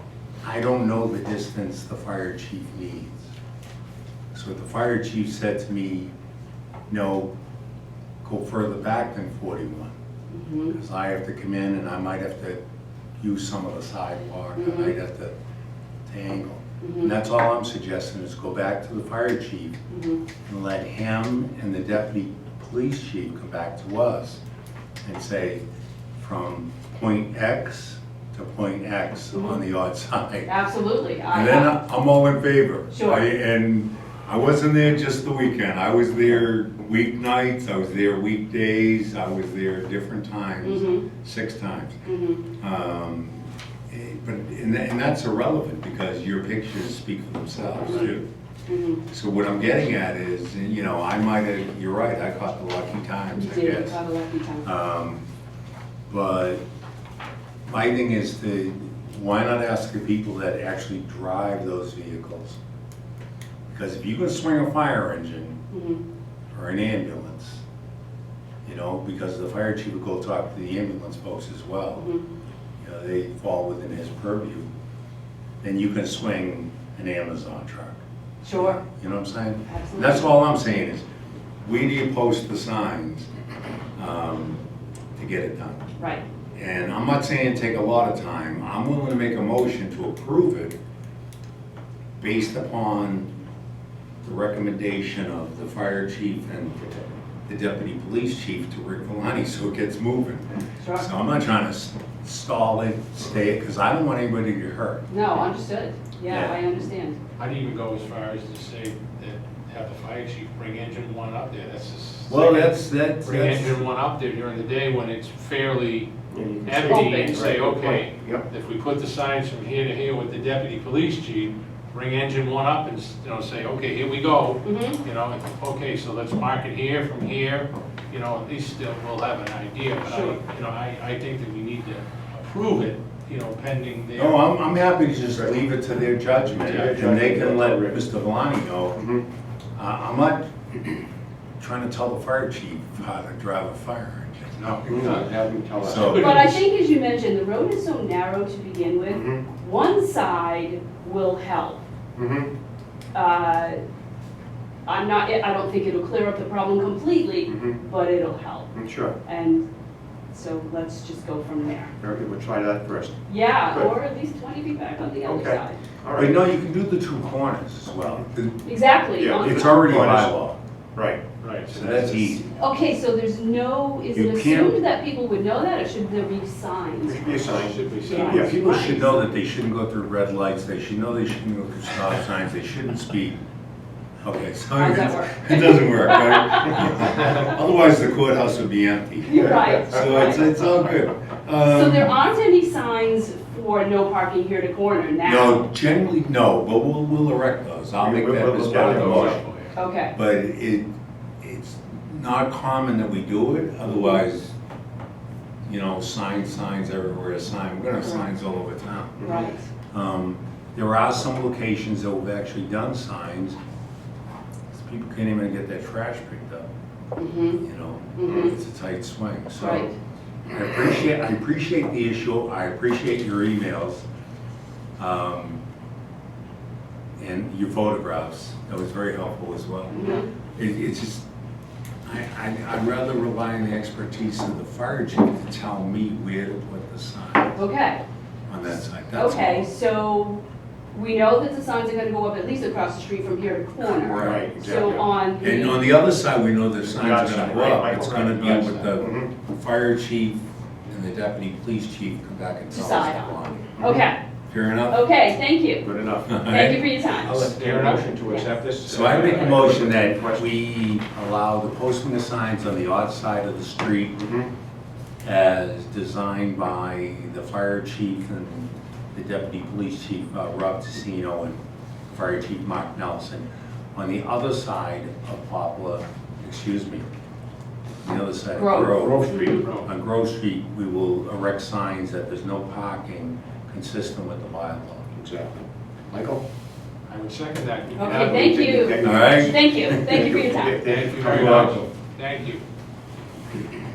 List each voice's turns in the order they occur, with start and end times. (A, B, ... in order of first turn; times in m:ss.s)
0:00.4-0:03.3 A
0:04.3-0:06.1 A
0:06.9-0:07.3 A
0:08.2-0:09.9 A
0:10.3-0:10.8 B
0:10.7-0:12.6 A
0:13.2-0:15.3 A
0:14.6-0:14.9 B
0:16.1-0:19.8 A
0:16.8-0:17.1 B
0:19.9-0:20.2 B
0:20.4-0:24.4 A
0:25.0-0:25.6 A
0:26.2-0:30.5 A
0:30.5-0:31.7 B
0:31.3-0:48.3 A
0:32.9-0:33.3 B
0:40.6-0:41.0 B
0:42.0-0:42.4 B
0:47.8-0:48.1 B
0:48.7-0:49.0 B
0:49.1-0:54.0 A
0:53.3-0:54.7 B
0:54.6-0:55.2 A
0:56.1-0:56.6 A
0:57.7-1:02.6 A
1:03.7-1:05.6 A
1:05.7-1:06.0 B
1:06.5-1:07.6 A
1:08.6-1:12.1 A
1:12.0-1:12.3 B
1:12.8-1:14.7 A
1:15.6-1:18.0 A
1:18.4-1:18.8 B
1:18.5-1:21.0 A
1:19.7-1:20.3 B
1:21.6-1:23.3 A
1:24.0-1:24.6 A
1:25.2-1:25.8 A
1:26.0-1:26.2 B
1:26.5-1:30.8 A
1:32.2-1:33.3 A
1:34.2-1:45.1 A
1:40.8-1:41.1 B
1:45.1-1:47.2 B
1:46.3-1:46.6 A
1:47.4-1:56.1 C
1:52.3-1:53.8 A
1:56.3-1:58.5 D
1:56.7-2:14.4 C
1:56.8-1:57.5 B
2:04.6-2:05.0 B
2:10.0-2:10.4 B
2:14.2-2:19.0 A
2:16.5-2:18.0 D
2:19.0-2:19.2 D
2:19.8-2:20.5 A
2:21.6-2:25.3 A
2:24.6-2:25.3 C
2:24.9-2:26.2 D
2:25.8-2:26.6 A
2:25.8-2:26.6 C
2:26.2-2:31.8 B
2:29.1-2:29.4 D
2:32.2-2:32.5 D
2:33.1-2:33.8 B
2:34.9-2:38.7 B
2:37.5-2:37.8 D
2:38.7-2:39.2 D
2:39.2-2:39.6 B
2:40.3-2:41.9 B
2:42.0-2:43.9 D
2:43.3-2:45.8 B
2:45.2-2:46.4 D
2:46.1-2:48.6 A
2:48.6-2:49.8 B
2:49.2-2:50.4 D
2:49.4-2:50.6 A
2:51.0-2:51.3 D
2:51.4-2:52.4 C
2:51.7-2:52.5 A
2:52.6-2:57.3 B
2:54.1-2:54.8 A
2:57.0-2:58.6 D
2:57.4-2:58.6 C
2:58.0-2:59.1 B
2:58.2-3:03.4 A
3:04.2-3:12.2 A
3:04.8-3:07.3 B
3:09.2-3:10.5 B
3:11.7-3:15.7 B
3:15.2-3:19.4 A
3:18.0-3:19.4 D
3:18.7-3:19.8 C
3:19.8-3:20.1 B
3:20.1-3:20.9 A
3:21.4-3:24.6 A
3:23.9-3:24.2 B
3:25.7-3:29.3 A
3:29.2-3:29.5 D
3:29.2-3:29.7 B
3:29.9-3:33.6 A
3:34.7-3:36.7 A
3:37.2-3:37.6 B
3:37.6-3:39.9 A
3:38.2-3:38.5 B
3:39.6-3:39.9 B
3:40.5-3:44.0 A
3:45.0-3:45.6 A
3:47.2-3:51.2 A
3:49.9-3:50.3 B
3:52.0-3:57.6 A
3:57.6-3:58.0 B
3:58.5-3:59.7 A
3:59.1-4:00.4 B
4:00.9-4:05.8 B
4:03.8-4:04.5 A
4:04.2-4:05.1 D
4:05.4-4:13.8 A
4:06.8-4:09.3 D
4:12.7-4:14.2 B
4:14.5-4:15.0 A
4:14.9-4:15.9 B
4:15.8-4:16.5 D
4:16.2-4:17.6 A
4:16.4-4:17.4 B
4:17.2-4:20.5 D
4:17.3-4:18.5 C
4:18.9-4:24.2 A
4:19.0-4:19.4 C
4:24.2-4:24.5 D
4:25.2-4:37.1 A
4:38.0-4:45.1 A
4:38.6-4:39.6 B
4:38.8-4:39.8 D
4:45.2-4:46.4 D
4:47.1-4:48.6 C
4:48.0-4:50.9 B
4:48.1-4:51.9 D
4:49.0-4:50.3 A
4:50.8-4:52.6 C
4:51.3-4:51.8 A